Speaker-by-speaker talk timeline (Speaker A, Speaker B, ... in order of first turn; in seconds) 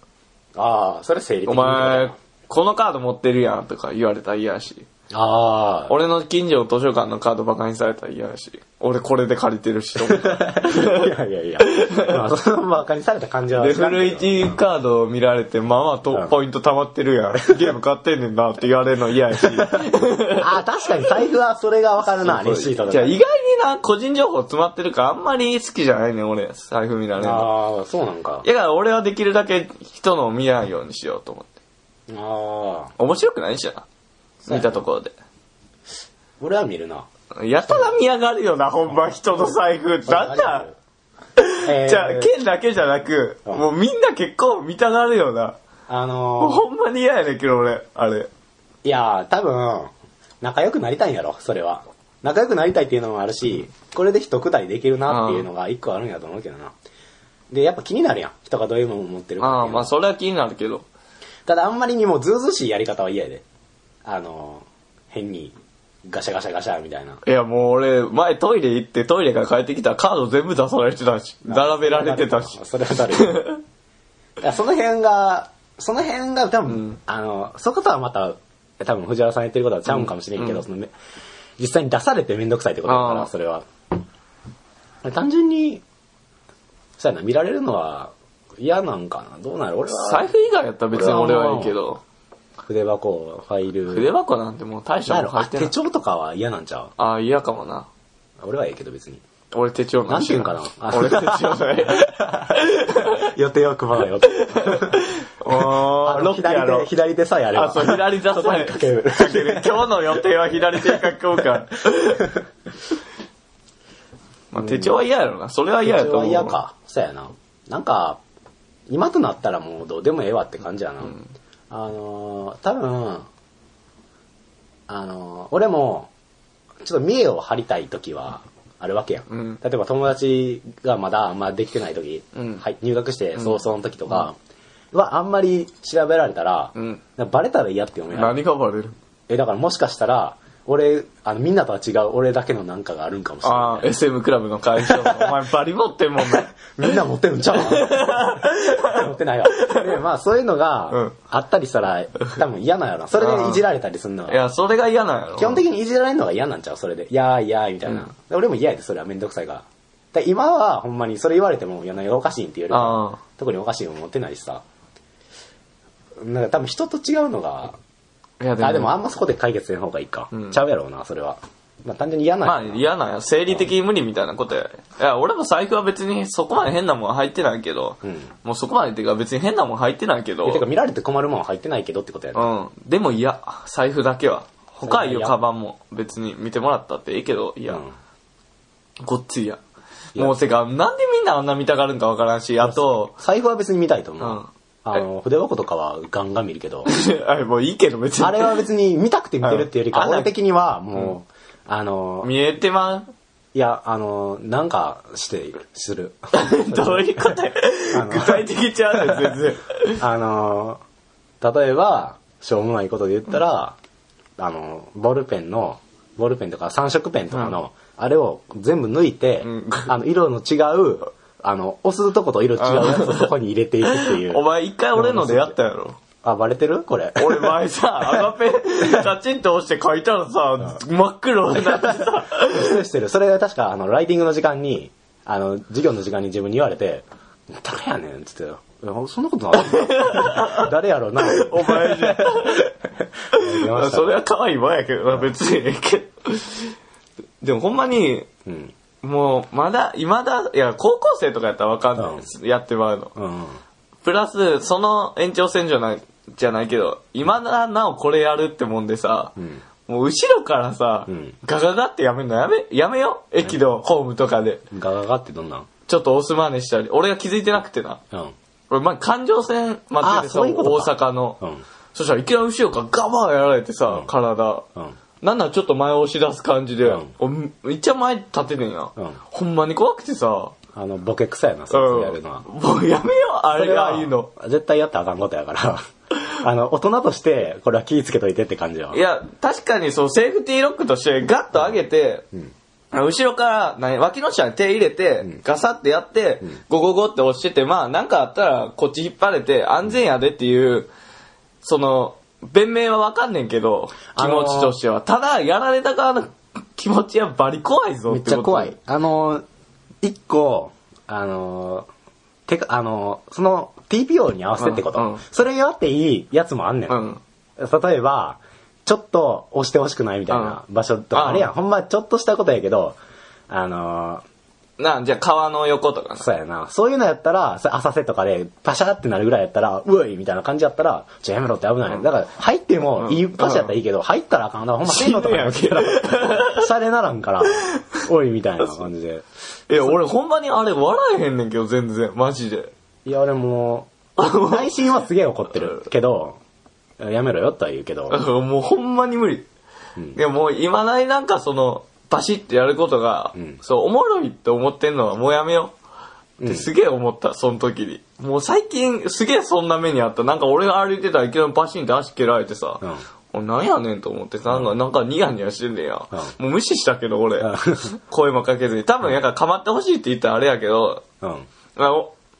Speaker A: 0.5-2.1, 5.1-5.9, 10.1-14.6, 20.4-23.2, 27.2-28.4, 32.1-32.9, 34.5-34.8, 36.4-37.0, 37.6-37.9, 40.0-40.7, 41.6-42.3, 45.9-46.6, 48.8-56.7, 57.5-59.9, 61.5-63.4, 64.0-65.5, 66.0-67.2, 71.4-73.4, 74.4-80.9, 81.6-83.7, 85.0-85.8, 87.0-90.3, 90.9-91.7, 92.6-94.1, 95.1-96.9, 98.4-99.2, 100.0-110.2, 110.8-111.0, 114.6-114.9, 115.8-118.2, 118.9-121.2, 121.7-123.3, 124.9-126.1, 126.8-134.3, 134.9-138.4, 139.3-143.9, 144.8-145.4, 146.2-154.4, 155.4-164.6, 166.2-167.8, 168.6-172.8, 178.0-178.3, 180.4-182.5, 184.8-185.3, 192.6-196.9, 198.2-202.3, 203.5-207.3, 207.9-209.4, 210.0-210.8, 211.4-213.8, 214.4-224.4, 224.9-225.6, 226.2-228.2, 231.5-242.7, 243.3-244.2, 248.4-248.7, 252.0-252.2, 253.1-253.6, 259.4-259.6, 261.1-261.4, 264.7-265.7, 270.0-271.6, 276.8-277.1, 280.7-282.4, 283.6-285.8, 286.4-289.0, 304.1-304.8, 308.1-309.4, 310.0-311.9, 312.5-317.0, 317.6-323.0, 323.5-324.2, 326.2-339.2, 343.1-346.4, 347.0-348.2, 356.4-356.7, 367.4-367.9, 371.2-371.4
Speaker B: 1.5-4.8, 5.9-12.2, 13.6-20.6, 22.2-27.5, 28.4-31.5, 33.0-33.8, 34.4-35.1, 37.3-40.6, 41.4-45.6, 46.4-48.3, 55.1-55.5, 59.4-60.9, 67.2-73.6, 76.7-77.0, 79.9-80.6, 82.9-83.3, 89.9-92.0, 93.9-95.7, 97.0-97.9, 99.5-103.3, 104.3-106.9, 107.5-112.3, 114.5-116.6, 129.3-129.6, 132.3-132.6, 136.7-137.0, 138.1-138.9, 143.4-147.0, 147.5-150.0, 153.2-153.6, 154.3-155.6, 162.7-163.2, 168.4-168.9, 170.3-170.6, 172.4-180.6, 182.3-187.8, 189.0-189.6, 190.2-193.1, 194.2-194.5, 196.8-198.6, 199.4-200.3, 202.2-203.1, 206.3-210.0, 217.3-217.6, 219.4-219.9, 222.6-223.3, 223.8-225.9, 227.2-232.8, 239.5-242.7, 243.3-246.7, 247.4-248.3, 249.0-253.1, 254.0-264.6, 265.9-268.0, 268.7-271.4, 271.9-274.6, 275.2-280.5, 281.7-284.3, 288.9-292.2, 292.9-300.9, 301.6-308.7, 314.6-315.2, 316.9-317.2, 320.3-320.6, 321.1-321.5, 324.8-326.3, 333.0-333.7, 334.8-336.7, 339.7-342.7, 344.2-344.7, 345.6-345.9, 348.1-349.5, 350.1-355.7, 356.4-371.0, 371.8-372.1